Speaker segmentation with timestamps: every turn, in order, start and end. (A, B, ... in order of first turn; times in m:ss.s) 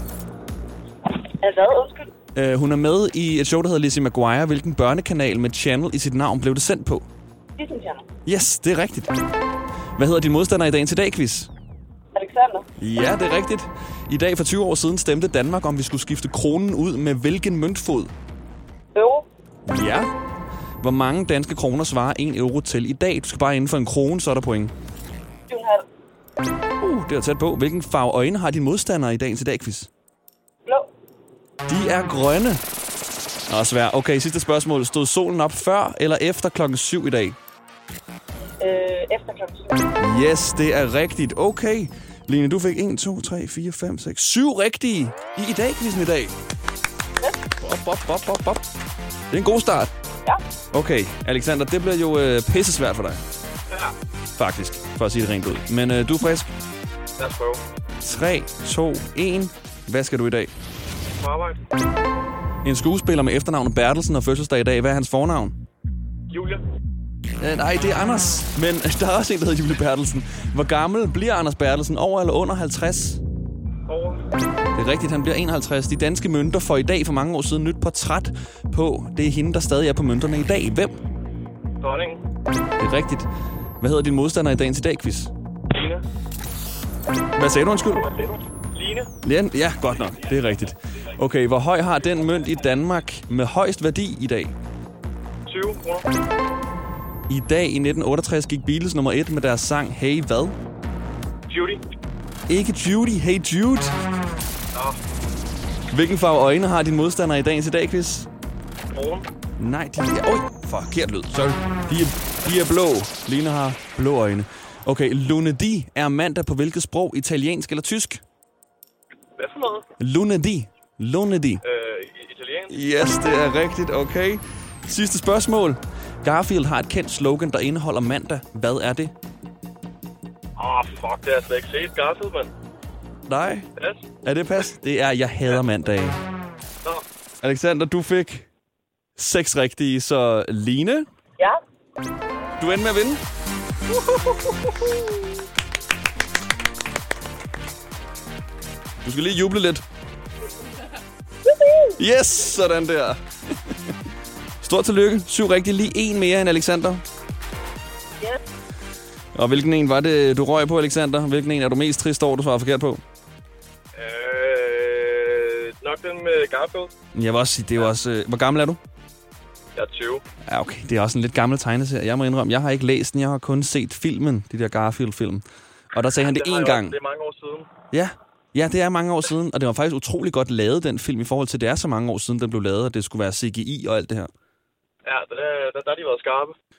0:01.2-0:02.1 A
0:02.4-0:07.1 B
0:07.6-0:08.1 A
0:08.3-0:09.2 B
0:10.0-0:11.5 B
0:12.2-0:12.7 A
0:12.8-0:18.1 B
0:19.0-0:19.3 A
0:19.7-0:20.1 B
0:20.8-0:24.7 B
0:25.5-0:25.8 A
0:26.8-0:29.9 B
0:31.7-0:32.6 B
0:33.5-0:37.4 B
0:38.6-0:39.8 A
0:40.0-0:46.4 B
0:47.6-0:48.7 B
0:49.3-0:49.9 B
0:50.7-0:53.2 B
0:54.4-0:56.5 B
0:57.2-0:57.6 C
0:58.0-1:00.5 B
1:01.1-1:01.6 C
1:02.6-1:05.6 B
1:06.3-1:06.6 C
1:07.4-1:13.2 B
1:13.9-1:14.2 C
1:14.8-1:21.0 B
1:21.8-1:22.2 C
1:22.8-1:23.3 B
1:23.8-1:25.3 B
1:25.7-1:26.0 C
1:27.4-1:28.1 B
1:28.0-1:29.1 C
1:29.2-1:34.6 B
1:35.5-1:36.1 C
1:37.3-1:40.6 B
1:41.5-1:41.8 C
1:42.5-1:43.9 B
1:45.9-1:48.3 B
1:48.9-1:49.3 C
1:49.6-1:58.2 B
1:59.4-1:59.8 C
2:00.0-2:01.6 B
2:01.6-2:02.7 C
2:02.7-2:09.1 B
2:10.6-2:12.5 C
2:13.3-2:13.7 B
2:13.8-2:14.1 C
2:14.2-2:16.2 B
2:17.4-2:18.5 B
2:19.2-2:21.1 B
2:22.6-2:23.2 B
2:29.0-2:29.8 B
2:32.0-2:33.9 B
2:34.6-2:37.0 B
2:39.4-2:43.0 B
2:44.0-2:46.9 C
2:47.1-2:48.8 B
2:49.8-2:50.2 C
2:50.5-2:57.0 B
2:56.2-2:57.7 C
2:57.9-3:04.3 B
3:05.0-3:06.6 C